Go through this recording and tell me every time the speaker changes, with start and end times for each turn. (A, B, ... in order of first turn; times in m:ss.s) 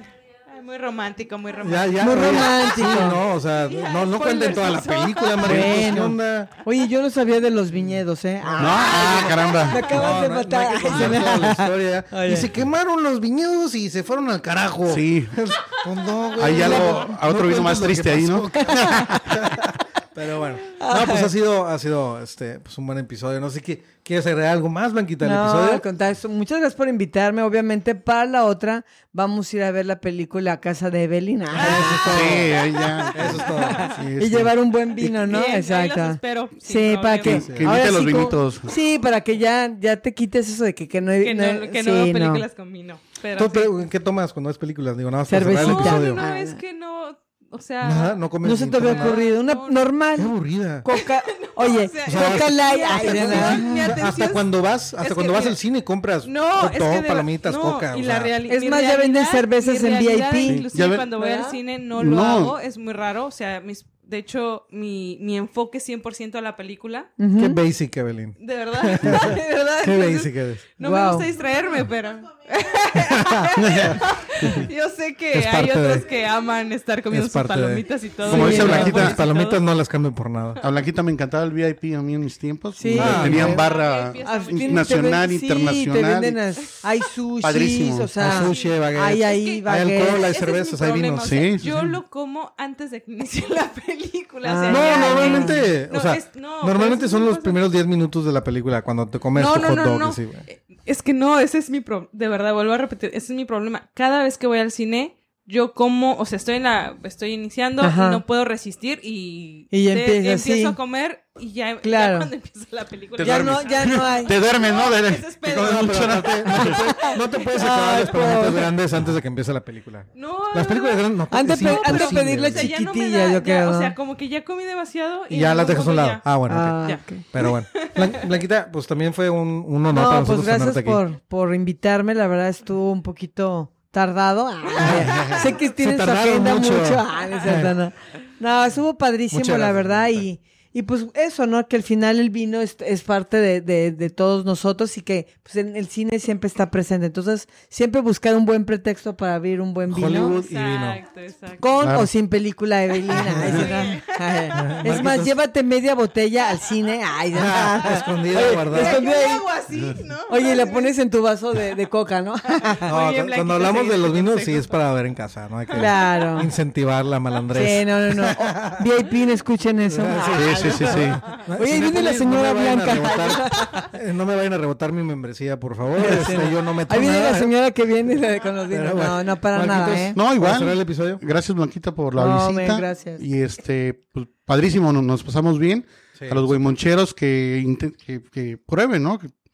0:00.5-0:06.1 A
0:01.6-0:06.5 B
0:02.0-0:03.2 C
0:05.4-0:12.5 C
0:07.7-0:09.0 B
0:08.6-0:09.9 D
0:08.9-0:10.2 A
0:09.9-0:25.8 B
0:14.9-0:15.4 D
0:16.4-0:19.3 D
0:16.5-0:17.1 C
0:18.7-0:19.4 C
0:20.8-0:21.3 C
0:25.2-0:32.4 C
0:31.5-0:32.6 B
0:32.1-0:35.0 D
0:33.0-0:42.4 C
0:33.1-0:33.9 B
0:33.6-0:34.0 A
0:35.2-0:37.5 A
0:37.2-0:38.8 D
0:37.3-0:37.8 B
0:41.2-0:43.8 A
0:43.4-0:46.2 B
0:45.3-0:46.6 C
0:45.6-0:48.2 A
0:47.8-0:49.2 B
0:48.4-0:53.9 C
0:48.8-0:49.9 A
0:50.2-0:50.9 B
0:50.9-0:55.6 A
0:52.0-0:58.4 B
0:56.2-1:07.1 A
0:58.5-1:00.6 C
1:00.5-1:01.1 D
1:01.2-1:01.6 C
1:02.0-1:02.6 D
1:07.2-1:07.6 C
1:07.4-1:10.6 B
1:08.4-1:19.6 A
1:10.8-1:11.3 C
1:13.0-1:14.6 B
1:13.6-1:14.7 D
1:15.3-1:16.1 B
1:17.1-1:20.6 B
1:18.2-1:19.2 D
1:18.3-1:19.0 C
1:20.6-1:26.4 D
1:22.8-1:23.6 C
1:22.9-1:23.6 B
1:23.2-1:25.2 A
1:24.2-1:30.3 C
1:27.4-1:28.1 D
1:28.2-1:31.3 B
1:28.2-1:37.6 A
1:31.2-1:32.0 D
1:34.4-1:35.6 C
1:34.7-1:40.4 B
1:39.4-1:57.2 A
1:47.8-1:48.2 C
1:49.7-1:50.8 C
1:51.8-1:52.3 C
1:53.2-1:56.9 D
1:53.2-1:54.4 C
1:55.5-2:02.7 B
1:56.5-1:58.7 C
2:00.1-2:06.3 A
2:01.3-2:03.9 C
2:05.3-2:11.0 B
2:06.5-2:07.2 C
2:06.8-2:08.1 A
2:09.9-2:30.4 C
2:14.8-2:17.7 B
2:19.3-2:20.2 B
2:29.9-2:31.0 B
2:30.1-2:31.7 A
2:31.6-2:39.5 C
2:31.8-2:32.1 D
2:33.0-2:34.8 A
2:33.2-2:33.7 D
2:33.3-2:33.6 B
2:34.5-2:35.4 B
2:37.3-2:39.1 B
2:38.6-2:40.9 A
2:40.3-2:42.9 C
2:42.5-2:44.7 A
2:42.9-2:48.8 B
2:45.7-2:46.5 C
2:45.8-2:46.3 A
2:47.5-2:51.1 C
2:49.9-2:57.5 B
2:50.3-2:51.2 D
2:51.6-2:53.9 C
2:56.0-3:00.2 C
2:58.7-3:01.2 B
3:00.1-3:09.3 D
3:02.2-3:03.2 C
3:06.2-3:06.8 B